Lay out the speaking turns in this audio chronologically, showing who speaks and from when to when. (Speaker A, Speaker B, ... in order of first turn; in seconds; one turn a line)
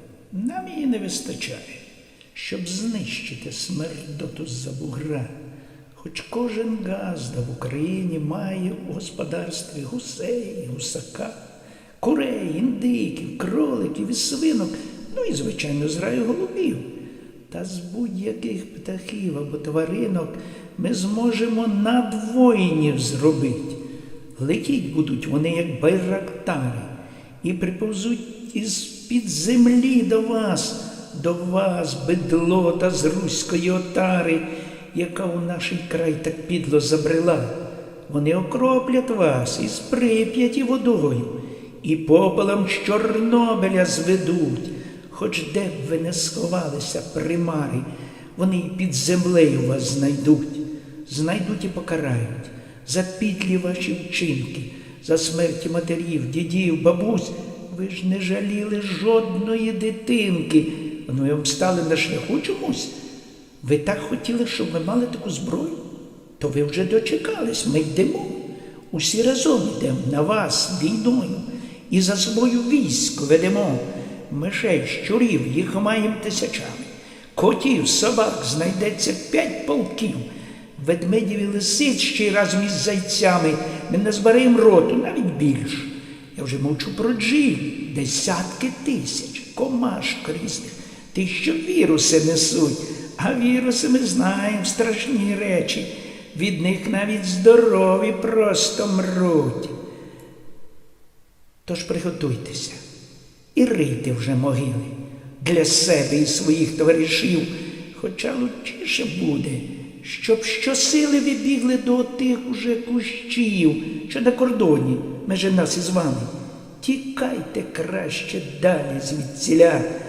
Speaker A: 0.3-1.8
Speaker A: 2.3-5.3
Speaker A: 5.9-11.4
Speaker A: 12.0-16.9
Speaker A: 17.5-23.8
Speaker A: 24.4-62.9
Speaker A: 63.6-65.8
Speaker A: 66.4-99.8
Speaker A: 101.7-102.8
Speaker A: 103.5-119.9